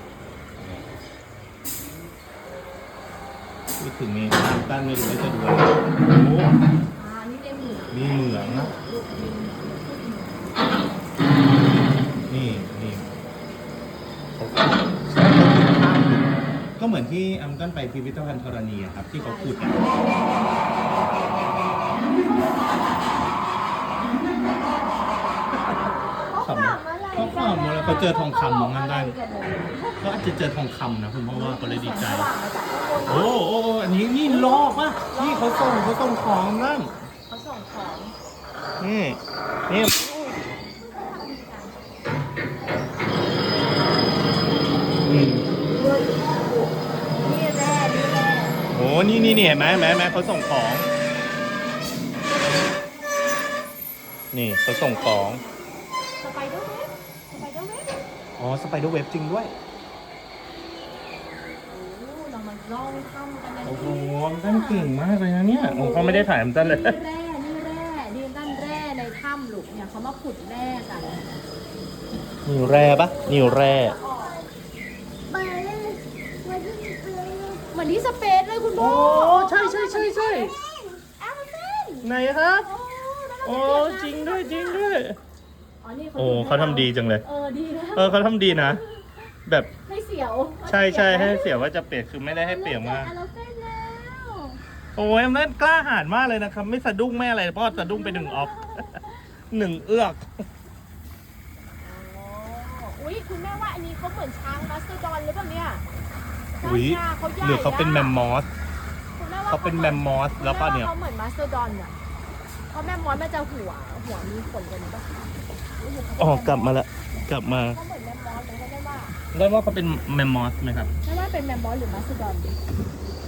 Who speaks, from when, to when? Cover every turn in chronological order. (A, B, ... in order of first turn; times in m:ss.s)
0:00.6-0:00.8 A
0:03.8-0:06.6 A
0:06.9-0:10.9 B
0:07.9-0:08.7 A
0:12.3-0:13.0 A
0:14.4-0:19.8 A
0:19.1-0:20.8 B
0:21.9-0:23.2 B
0:24.1-0:30.0 B
0:26.4-0:29.1 A
0:30.0-0:32.3 A
0:31.3-0:33.4 B
0:33.1-0:37.0 A
0:34.2-0:35.7 B
0:37.3-0:38.1 B
0:38.8-0:39.9 A
0:39.8-0:41.9 B
0:42.8-0:45.0 B
0:45.0-0:45.5 A
0:45.5-0:48.6 B
0:48.7-0:50.9 A
0:54.3-0:55.4 A
0:54.7-0:55.5 B
0:56.2-0:58.0 B
0:58.4-0:59.5 A
1:01.7-1:04.9 B
1:03.6-1:07.0 A
1:05.6-1:11.3 B
1:12.4-1:14.0 A
1:13.1-1:14.4 B
1:14.0-1:14.5 C
1:15.3-1:17.6 C
1:17.7-1:20.0 B
1:18.8-1:20.5 A
1:19.7-1:21.0 C
1:21.2-1:22.1 B
1:22.0-1:22.7 A
1:22.6-1:24.8 B
1:23.4-1:25.2 A
1:25.8-1:29.2 B
1:26.2-1:27.2 A
1:27.9-1:28.8 A
1:29.4-1:29.7 A
1:29.9-1:31.6 B
1:30.6-1:33.1 A
1:32.2-1:34.6 B
1:35.0-1:39.0 A
1:37.7-1:39.2 B
1:39.5-1:40.2 A
1:41.8-1:45.8 B
1:46.6-1:48.5 A
1:46.6-1:48.2 B
1:49.2-1:51.9 B
1:49.5-1:50.9 A
1:52.7-1:56.8 B
1:56.2-1:57.8 A
1:57.5-1:59.2 B
1:59.3-2:00.9 A
2:01.0-2:02.5 B